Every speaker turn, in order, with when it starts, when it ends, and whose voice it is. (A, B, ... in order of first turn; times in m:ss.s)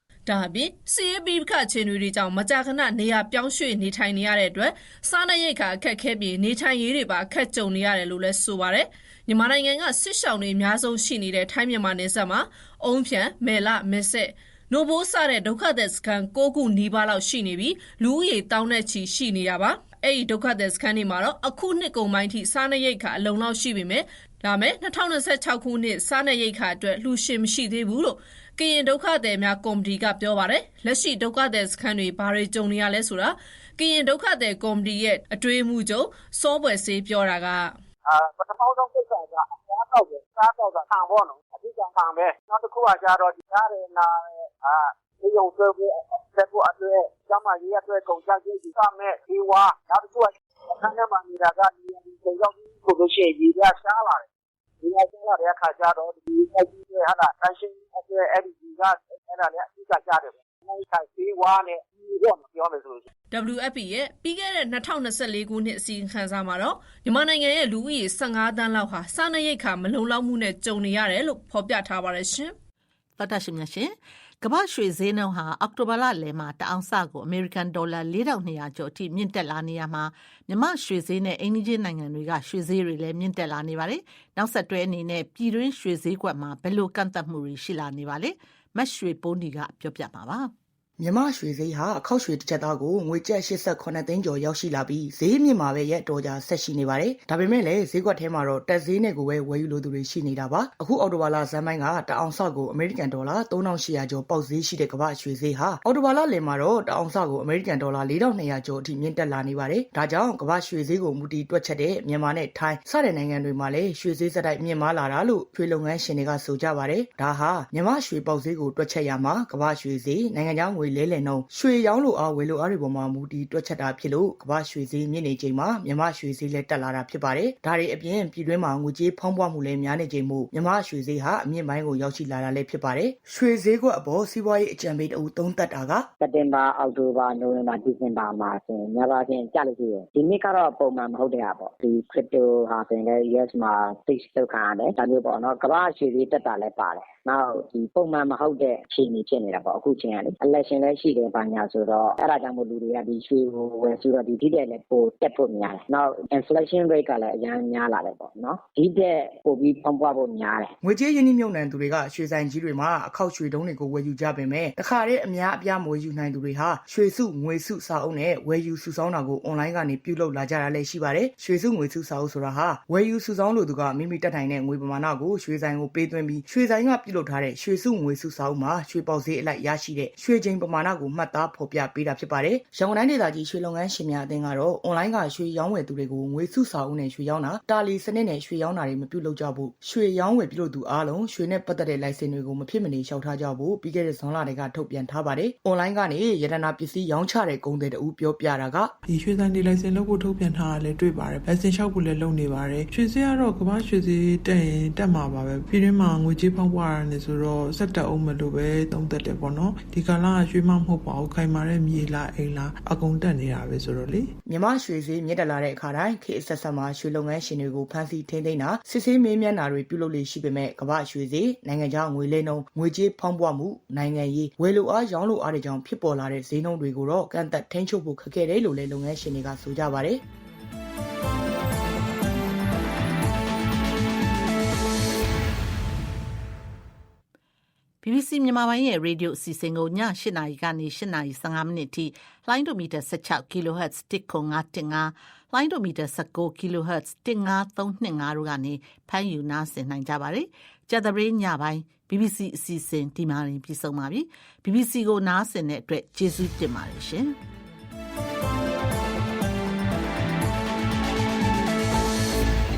0:00.3-0:37.7 A
0:38.0-0:54.2 B
0:54.8-1:03.0 B
1:03.3-1:12.5 A
1:13.2-1:30.5 C
1:31.0-2:16.0 D
2:16.2-2:40.7 E
2:40.8-3:18.9 D
3:19.1-3:34.3 F
3:34.5-3:50.2 D
3:58.0-4:17.4 C